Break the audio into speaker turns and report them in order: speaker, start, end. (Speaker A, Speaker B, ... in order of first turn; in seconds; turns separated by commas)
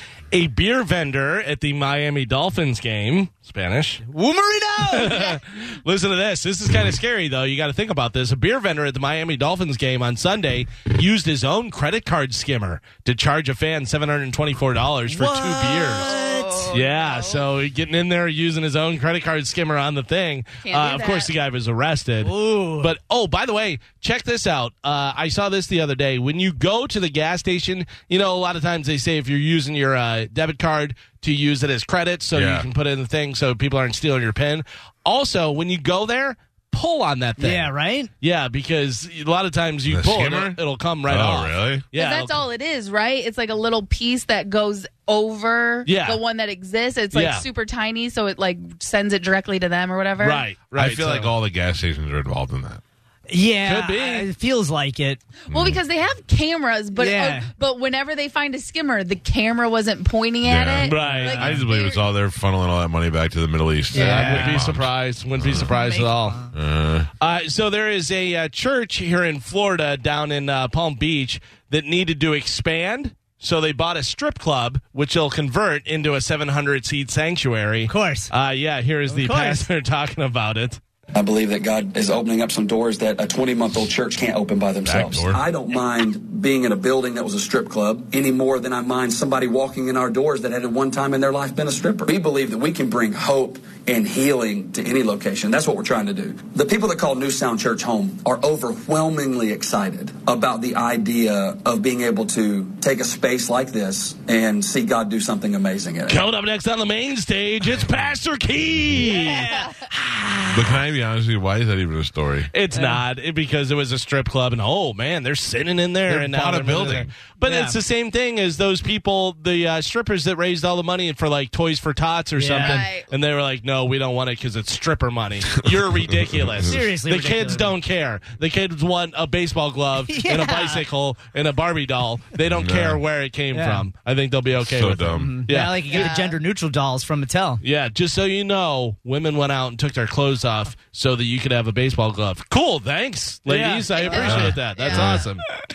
Speaker A: 0.3-4.0, Speaker B: 4.0-5.4, Speaker A: 4.9-16.1, Speaker B: 15.1-16.8, Speaker C: 15.9-17.4, Speaker A: 16.7-42.4, Speaker C: 20.6-21.3, Speaker B: 22.2-22.9, Speaker D: 32.3-32.7, Speaker B: 37.4-38.1, Speaker D: 39.9-41.8, Speaker C: 41.9-50.4, Speaker A: 45.9-46.2, Speaker A: 47.1-47.4, Speaker A: 50.2-51.3, Speaker D: 50.8-52.8, Speaker B: 53.3-55.2, Speaker A: 53.6-54.3, Speaker C: 55.5-62.0, Speaker D: 55.5-55.8, Speaker B: 57.0-57.5, Speaker D: 60.4-65.7, Speaker A: 60.8-61.5, Speaker B: 61.0-61.6, Speaker B: 63.9-64.6, Speaker A: 63.9-66.4, Speaker C: 65.7-66.1, Speaker B: 66.1-66.4, Speaker D: 66.5-67.1, Speaker A: 67.2-80.8, Speaker B: 77.9-78.3, Speaker B: 79.1-79.7, Speaker E: 81.1-106.2, Speaker D: 84.8-85.4, Speaker A: 106.1-110.8, Speaker B: 109.0-109.8, Speaker D: 110.5-112.5, Speaker A: 112.5-136.1, Speaker B: 112.7-113.0, Speaker D: 116.1-117.1, Speaker B: 117.4-117.8, Speaker B: 122.4-122.8, Speaker C: 122.6-123.1, Speaker D: 125.6-126.7, Speaker B: 126.6-127.7, Speaker B: 130.1-130.8, Speaker D: 132.4-133.0, Speaker B: 133.5-133.8, Speaker D: 134.6-135.4, Speaker B: 135.1-137.6, Speaker C: 135.9-136.3, Speaker A: 137.6-145.4, Speaker B: 143.5-145.2, Speaker C: 143.9-145.1, Speaker D: 144.1-145.2